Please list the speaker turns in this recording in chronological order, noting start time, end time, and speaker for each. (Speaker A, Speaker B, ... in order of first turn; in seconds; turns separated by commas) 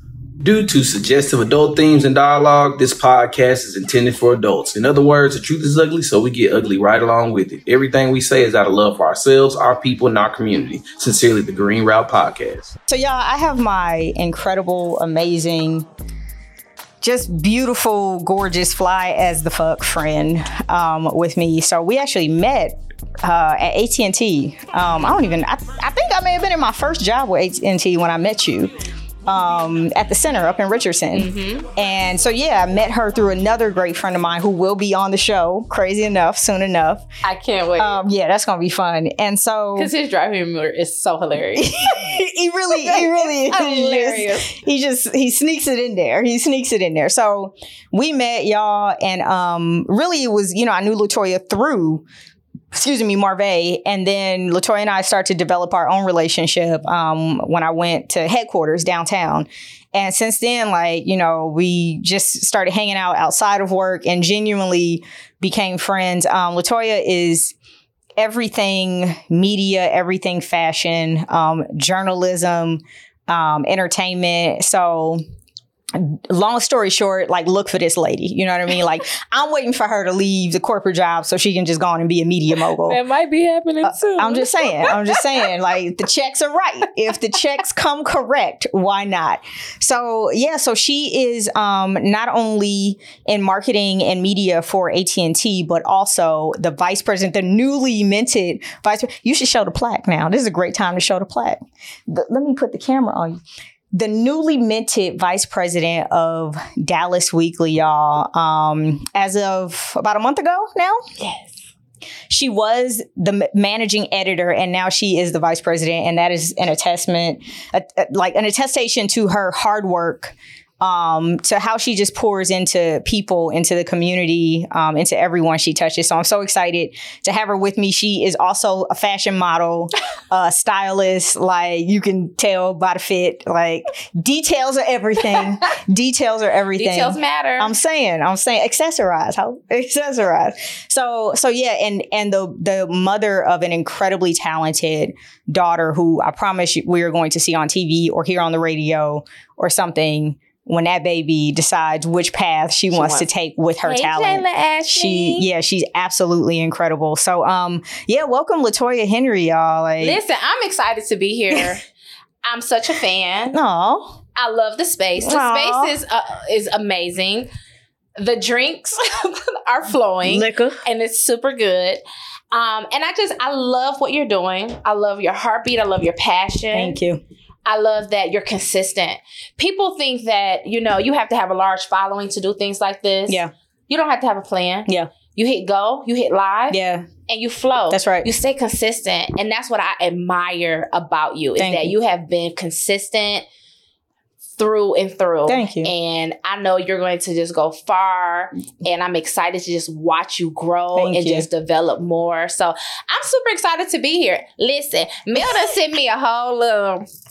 Speaker A: 0.4-12.7, Speaker B: 12.9-15.8, Speaker B: 17.0-28.7, Speaker B: 29.2-37.1, Speaker C: 31.1-31.7, Speaker C: 37.2-38.0, Speaker B: 37.8-39.9, Speaker C: 39.8-42.1, Speaker B: 41.5-52.0, Speaker C: 42.7-44.5, Speaker B: 52.7-67.5, Speaker B: 68.2-75.2, Speaker B: 75.9-83.0, Speaker C: 82.8-85.4, Speaker B: 83.8-103.4, Speaker B: 103.9-111.0, Speaker C: 111.2-111.5, Speaker B: 112.3-160.2, Speaker C: 136.8-137.7, Speaker C: 152.9-153.3, Speaker C: 153.8-155.5, Speaker C: 160.0-161.8, Speaker C: 162.4-163.6, Speaker B: 163.5-164.2, Speaker C: 164.3-167.5, Speaker B: 165.2-165.9, Speaker C: 168.2-177.0, Speaker B: 170.2-170.8, Speaker B: 176.7-177.2, Speaker C: 177.7-193.4, Speaker B: 186.7-187.1, Speaker B: 187.9-188.3, Speaker B: 191.6-191.9, Speaker C: 194.6-207.1, Speaker B: 195.5-195.9, Speaker B: 200.9-201.5